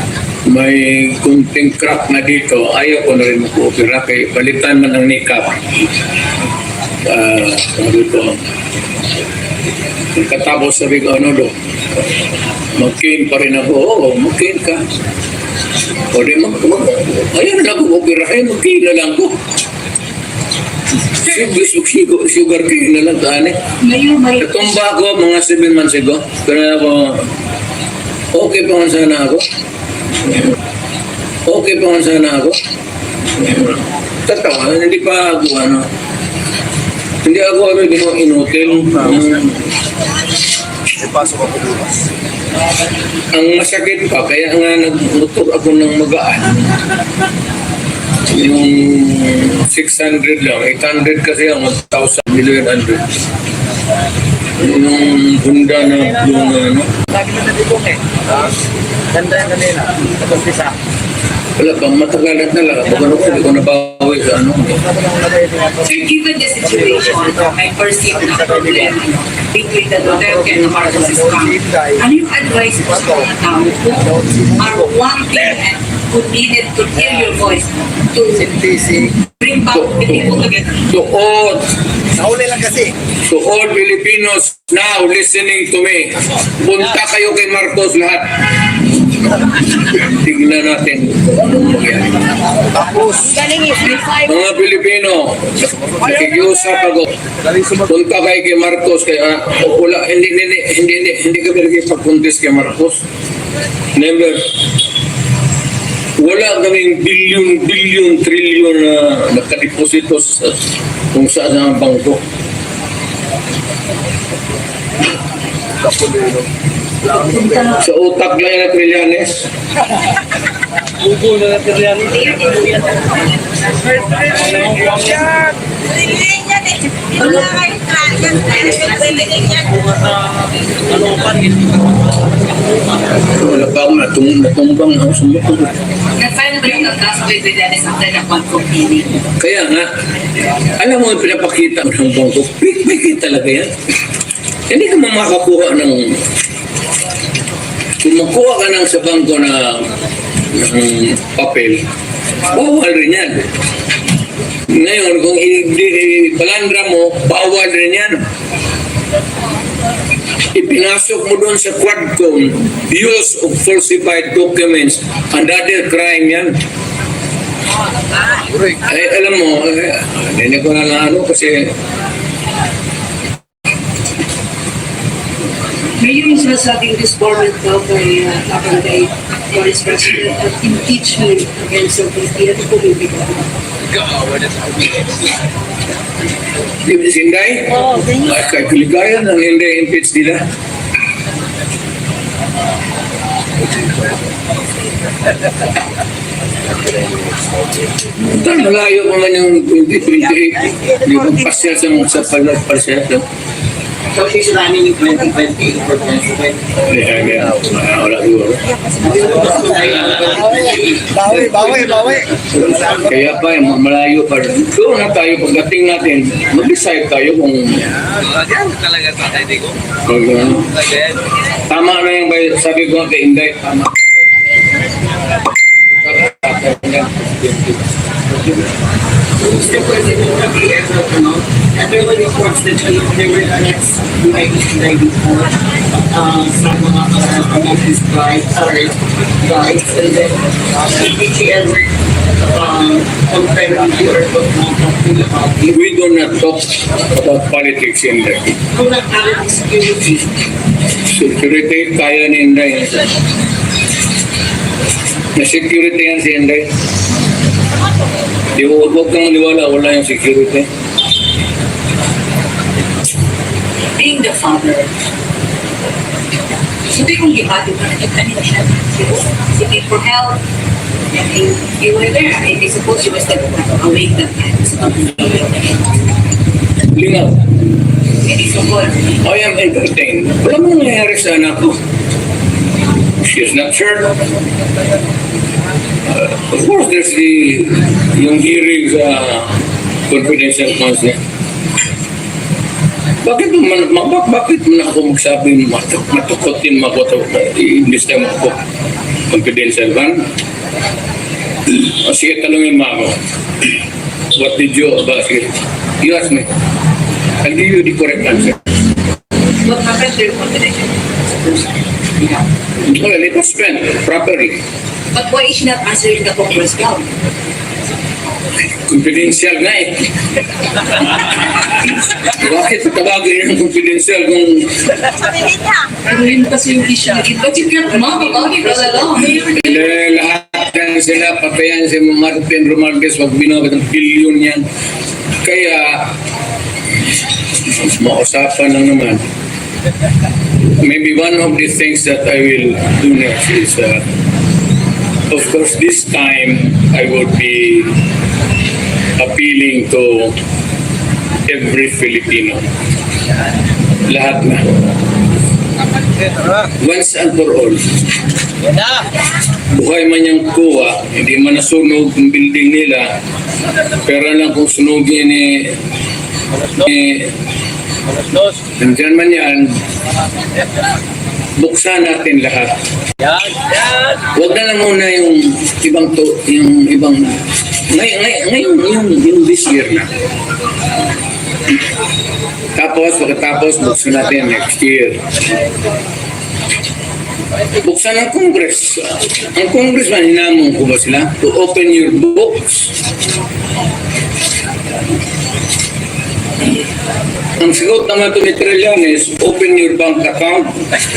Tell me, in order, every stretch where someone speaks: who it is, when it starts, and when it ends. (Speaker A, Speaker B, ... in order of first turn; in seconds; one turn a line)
Speaker A: 0.5-5.7
Speaker A: 7.0-8.5
Speaker A: 10.1-11.6
Speaker A: 12.8-14.9
Speaker A: 16.1-19.4
Speaker A: 21.2-23.6
Speaker B: 23.8-24.6
Speaker A: 24.4-27.3
Speaker A: 28.3-29.5
Speaker A: 31.5-32.6
Speaker A: 33.4-33.8
Speaker A: 34.3-35.9
Speaker A: 37.2-39.6
Speaker C: 41.0-42.0
Speaker A: 43.3-46.7
Speaker A: 48.3-53.1
Speaker A: 54.6-56.9
Speaker C: 57.1-58.5
Speaker C: 59.1-60.7
Speaker A: 61.6-64.8
Speaker C: 64.8-65.9
Speaker B: 65.8-80.8
Speaker C: 66.9-67.5
Speaker C: 68.3-68.9
Speaker C: 70.2-72.0
Speaker C: 74.0-74.8
Speaker C: 78.6-79.0
Speaker A: 79.7-81.7
Speaker C: 82.1-82.9
Speaker A: 83.2-88.5
Speaker A: 89.9-92.3
Speaker C: 92.7-93.6
Speaker A: 94.2-97.2
Speaker C: 97.4-97.9
Speaker A: 97.9-103.0
Speaker A: 104.0-104.6
Speaker A: 106.2-112.2
Speaker C: 115.8-116.5
Speaker C: 117.0-117.8
Speaker B: 117.2-117.7
Speaker A: 117.8-119.5
Speaker B: 121.9-125.2
Speaker B: 127.2-130.1
Speaker A: 133.3-135.7
Speaker B: 136.2-139.2
Speaker A: 139.4-139.9
Speaker A: 140.8-143.7
Speaker A: 144.7-146.2
Speaker A: 148.0-149.9
Speaker A: 150.5-151.9
Speaker A: 152.5-153.5
Speaker A: 154.7-158.2
Speaker A: 160.5-166.6
Speaker A: 168.8-171.8
Speaker B: 176.0-183.5
Speaker C: 184.1-184.9
Speaker A: 186.8-190.4
Speaker C: 193.7-194.2
Speaker C: 196.7-197.8
Speaker A: 198.2-203.2
Speaker D: 204.1-206.6
Speaker A: 206.9-208.6
Speaker D: 209.0-212.2
Speaker C: 211.1-213.4
Speaker A: 212.5-217.9
Speaker A: 220.0-220.8
Speaker A: 221.7-224.2
Speaker A: 226.0-227.8
Speaker D: 229.4-235.6
Speaker D: 236.1-241.9
Speaker D: 242.4-245.8
Speaker A: 245.7-248.6
Speaker D: 248.7-250.3
Speaker A: 251.1-253.1
Speaker A: 255.3-256.7
Speaker A: 258.6-260.7
Speaker B: 264.0-264.9
Speaker B: 266.8-270.4
Speaker B: 271.1-275.7
Speaker A: 276.9-277.4
Speaker B: 278.2-279.1
Speaker A: 279.2-281.8
Speaker A: 283.2-284.2
Speaker A: 286.1-291.2
Speaker A: 293.2-298.6
Speaker A: 299.3-300.3
Speaker A: 301.7-303.2
Speaker A: 304.4-306.5
Speaker A: 307.4-308.6
Speaker B: 309.6-311.6
Speaker A: 312.8-314.6
Speaker B: 315.1-317.1
Speaker A: 318.8-320.1
Speaker A: 322.2-324.9
Speaker B: 326.0-329.9
Speaker A: 329.4-334.7
Speaker A: 335.4-336.1
Speaker A: 337.6-339.2
Speaker A: 340.8-344.1
Speaker A: 345.3-348.0
Speaker A: 349.2-350.4
Speaker A: 351.5-352.7
Speaker A: 354.1-354.8
Speaker A: 356.8-357.9
Speaker A: 359.7-363.2
Speaker A: 364.0-365.8
Speaker A: 366.7-367.3
Speaker A: 368.6-369.8
Speaker A: 371.6-372.8
Speaker A: 374.1-380.1
Speaker A: 382.8-385.3
Speaker A: 387.8-392.9
Speaker A: 397.6-400.8